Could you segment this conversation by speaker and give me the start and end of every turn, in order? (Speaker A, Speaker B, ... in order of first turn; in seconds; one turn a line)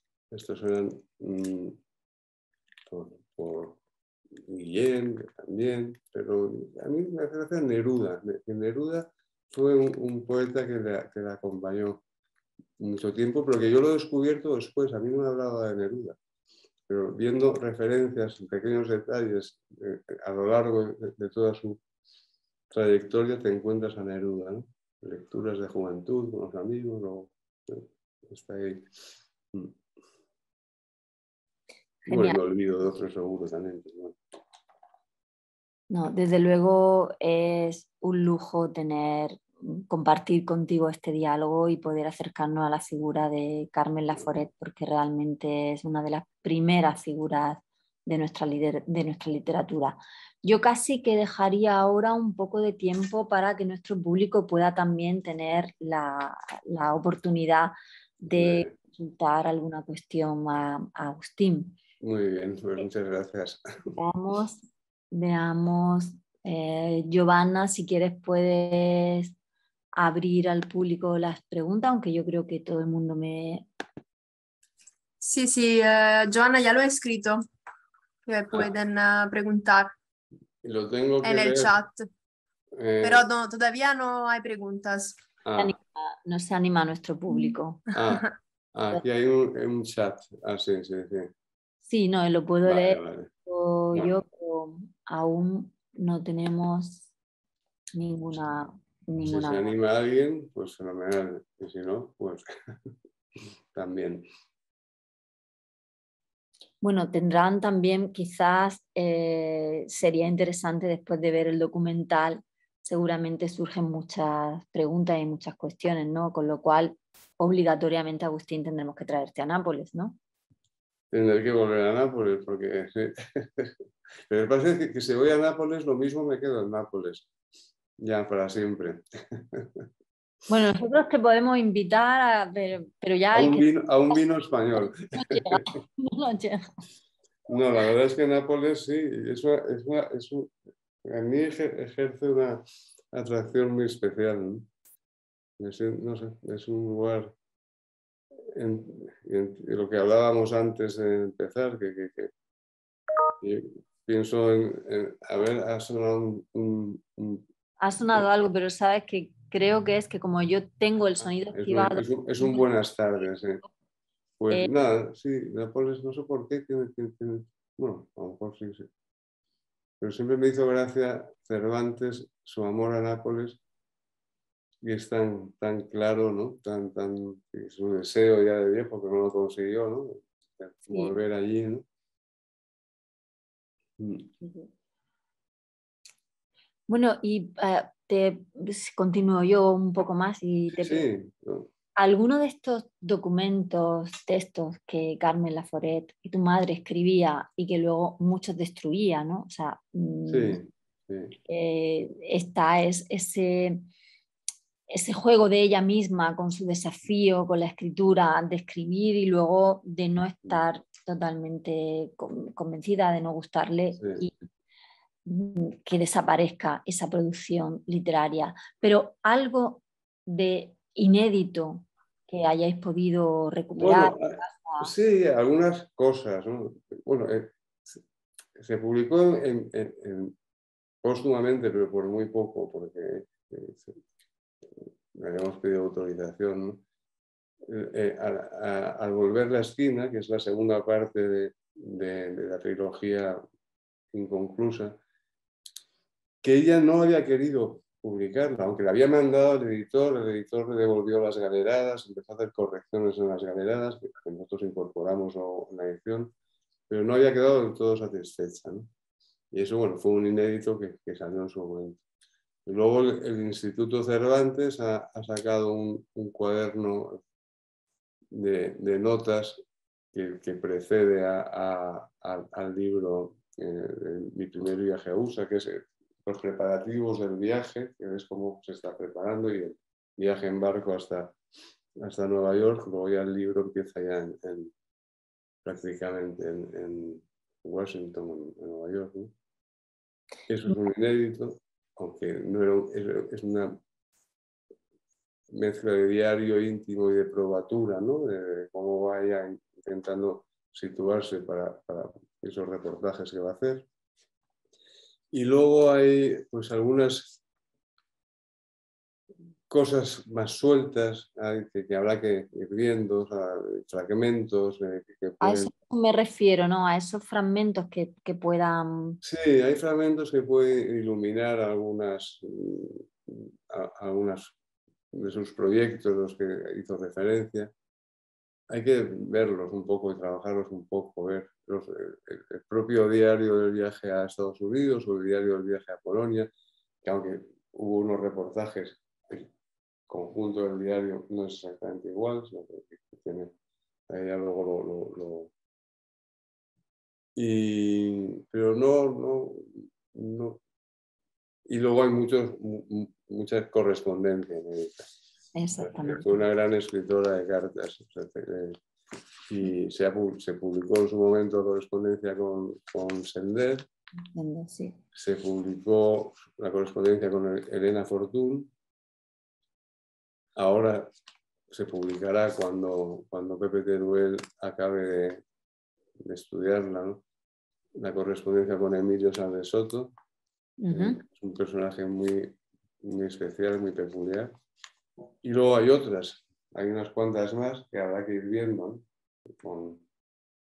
Speaker A: 0.3-1.8
Speaker A: 2.9-3.8
Speaker A: 4.4-12.0
Speaker A: 12.8-16.2
Speaker A: 16.9-21.8
Speaker A: 22.7-28.9
Speaker B: 32.0-32.4
Speaker A: 32.1-34.2
Speaker B: 35.9-61.8
Speaker A: 58.3-58.7
Speaker A: 62.0-64.0
Speaker B: 64.0-69.3
Speaker B: 70.0-73.7
Speaker C: 75.2-77.4
Speaker C: 78.3-79.9
Speaker A: 80.6-81.8
Speaker C: 81.2-82.1
Speaker A: 82.7-83.3
Speaker C: 83.0-85.2
Speaker A: 85.4-85.8
Speaker B: 85.6-87.8
Speaker A: 87.9-91.3
Speaker B: 91.9-97.1
Speaker A: 92.7-93.3
Speaker B: 97.9-99.7
Speaker A: 99.2-102.5
Speaker A: 103.7-104.3
Speaker B: 106.8-120.2
Speaker A: 121.1-123.8
Speaker A: 124.3-127.3
Speaker A: 128.0-129.9
Speaker B: 130.5-134.2
Speaker A: 133.3-135.7
Speaker B: 135.1-136.7
Speaker A: 137.5-140.5
Speaker A: 141.0-144.7
Speaker A: 145.6-147.3
Speaker A: 148.5-152.3
Speaker A: 153.4-157.4
Speaker B: 157.8-162.6
Speaker A: 161.5-163.6
Speaker A: 164.4-168.9
Speaker A: 170.0-173.6
Speaker A: 174.8-181.8
Speaker B: 180.9-181.2
Speaker A: 184.0-184.3
Speaker B: 186.9-191.1
Speaker A: 190.8-191.7
Speaker B: 192.0-200.6
Speaker A: 200.3-201.4
Speaker B: 201.5-203.9
Speaker B: 204.9-214.3
Speaker A: 214.0-214.2
Speaker B: 215.2-224.9
Speaker A: 223.8-228.0
Speaker A: 228.6-230.3
Speaker A: 231.0-234.0
Speaker A: 235.1-236.8
Speaker A: 237.6-243.4
Speaker A: 244.1-245.0
Speaker A: 246.4-256.3
Speaker A: 256.9-258.9
Speaker A: 259.5-262.0
Speaker A: 262.7-267.2
Speaker A: 268.3-281.4
Speaker A: 282.0-284.7
Speaker A: 285.6-289.3
Speaker A: 290.5-293.8
Speaker A: 295.5-303.9
Speaker A: 305.3-307.4
Speaker A: 309.7-315.7
Speaker B: 315.4-319.2
Speaker A: 319.2-324.6
Speaker A: 325.1-327.7
Speaker A: 328.7-336.5
Speaker A: 337.0-339.5
Speaker A: 340.1-343.5
Speaker A: 344.1-345.5
Speaker A: 347.4-350.6
Speaker A: 351.7-355.1
Speaker B: 355.6-356.4
Speaker A: 355.8-358.8
Speaker A: 359.5-363.9
Speaker B: 364.3-365.0
Speaker A: 365.1-368.7
Speaker A: 370.6-371.1
Speaker A: 371.7-375.4
Speaker A: 376.2-377.2
Speaker A: 378.0-380.1
Speaker B: 380.8-381.2
Speaker A: 380.9-384.5
Speaker A: 385.4-389.1
Speaker A: 389.6-390.0